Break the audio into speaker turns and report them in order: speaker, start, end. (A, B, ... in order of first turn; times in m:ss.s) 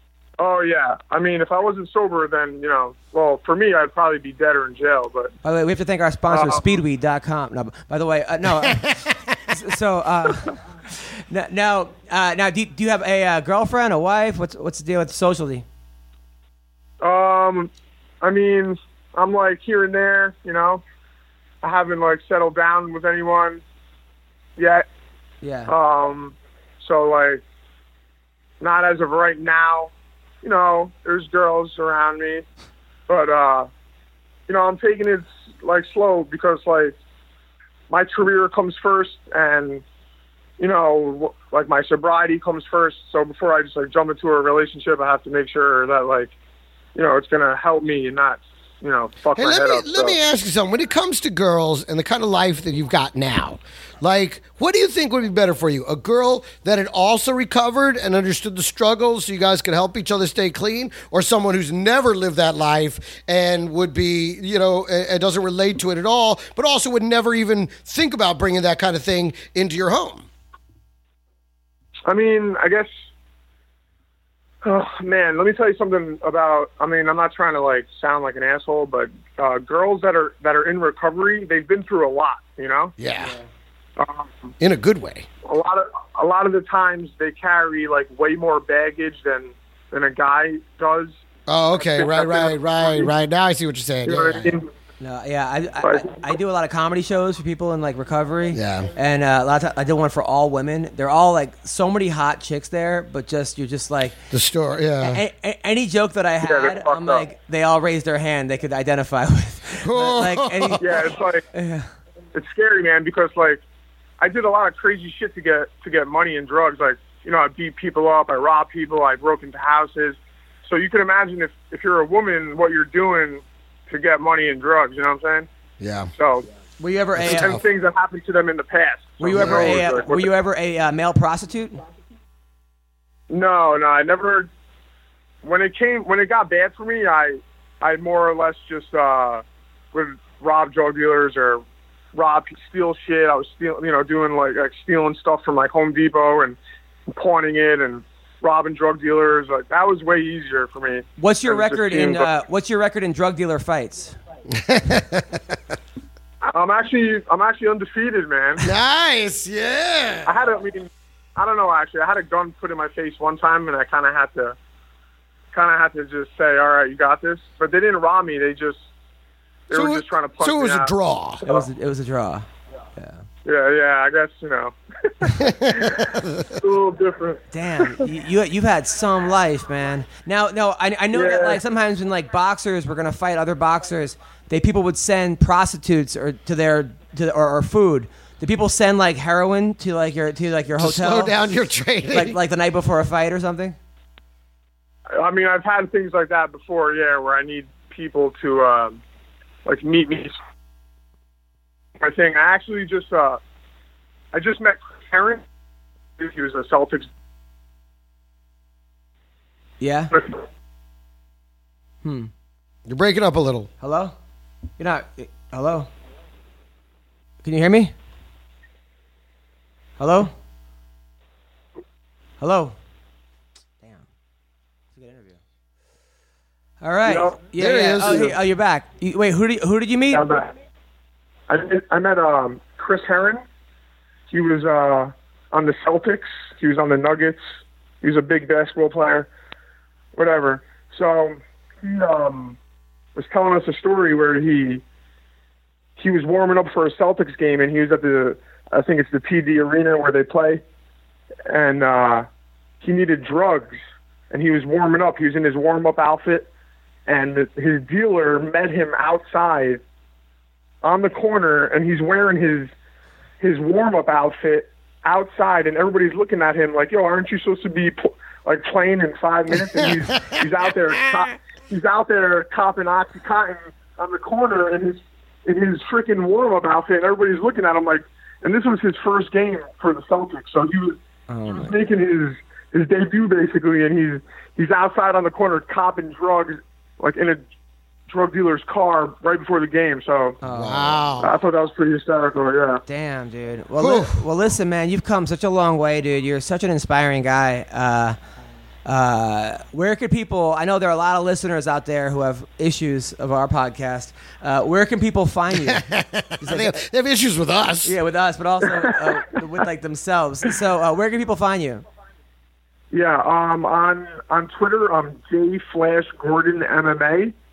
0:00.4-0:05.3 A
0:05.4-0:15.6 B
0:06.3-0:06.7 A
0:08.6-0:09.1 C
0:17.0-0:20.8 A
0:21.6-0:23.6 A
0:24.6-0:24.8 A
0:25.4-0:25.7 B
0:25.7-0:27.4 A
0:28.6-0:29.9 A
0:30.4-0:32.4 A
0:33.1-0:33.7 A
0:34.5-0:36.9 A
0:37.9-0:39.8 A
0:40.6-0:46.3 A
0:46.9-0:50.2 A
0:49.3-1:10.3 C
1:12.0-1:12.9 A
1:14.6-1:22.9 A
1:23.0-1:23.4 C
1:23.2-1:23.5 B
1:24.0-1:24.5 A
1:24.6-1:25.3 C
1:25.4-1:31.1 A
1:31.5-1:34.6 C
1:31.7-1:33.1 A
1:34.0-1:34.7 A
1:35.0-1:44.2 B
1:35.8-1:36.2 A
1:38.5-1:38.9 C
1:44.3-1:45.2 C
1:45.0-1:50.8 B
1:46.4-1:47.2 A
1:49.8-1:50.8 C
1:50.8-1:51.4 A
1:51.5-1:51.9 B
1:52.3-1:53.6 A
1:54.2-2:05.5 A
2:05.8-2:06.1 C
2:06.2-2:06.4 A
2:06.8-2:07.6 B
2:07.2-2:07.6 C
2:07.2-2:10.3 A
2:09.2-2:11.8 B
2:09.4-2:09.8 C
2:13.3-2:14.5 A
2:15.4-2:21.6 A
2:22.1-2:26.6 A
2:27.1-2:32.3 A
2:31.2-2:34.2 B
2:34.5-2:35.4 C
2:36.4-2:38.7 A
2:38.6-2:40.4 C
2:40.2-2:44.6 A
2:45.5-2:48.8 A
2:49.7-2:50.9 A
2:49.7-2:51.4 C
2:51.4-2:53.2 B
2:53.4-2:58.0 A
2:55.3-2:56.4 C
2:57.5-3:11.4 B
3:01.1-3:01.6 A
3:10.8-3:12.4 C
3:12.1-3:13.8 B
3:15.1-3:19.0 A
3:19.6-3:20.4 A
3:22.0-3:23.4 A
3:24.3-3:25.4 A
3:26.2-3:27.1 A
3:29.8-3:30.2 B
3:32.0-3:32.3 B
3:32.9-3:33.7 C
3:33.8-3:34.2 B
3:34.8-3:35.9 B
3:37.4-3:37.9 B
3:40.0-3:40.3 B
3:42.4-3:42.8 B
3:44.9-3:45.4 B
3:46.8-3:50.2 B
3:47.0-3:47.5 A
3:47.6-3:48.4 C
3:50.1-3:50.5 A
3:51.5-3:53.4 A
3:54.3-3:57.4 A
3:58.0-3:59.3 A
4:00.1-4:02.6 A
4:03.2-4:04.8 A
4:06.0-4:10.6 A
4:11.5-4:12.3 A
4:12.8-4:13.8 A
4:14.3-4:16.5 A
4:17.0-4:19.8 A
4:20.8-4:22.7 A
4:23.4-4:41.0 A
4:29.8-4:30.4 C
4:41.3-4:41.8 B
4:41.5-4:47.4 A
4:48.1-4:50.4 A
4:50.4-4:51.1 B
4:50.4-4:51.4 C
4:51.2-4:52.8 A
4:52.9-4:58.2 B
4:53.8-4:54.2 C
4:58.9-5:05.9 B
5:05.5-5:08.0 C
5:06.4-5:06.8 B
5:07.8-5:11.8 B
5:08.8-5:09.1 A
5:12.9-5:17.3 A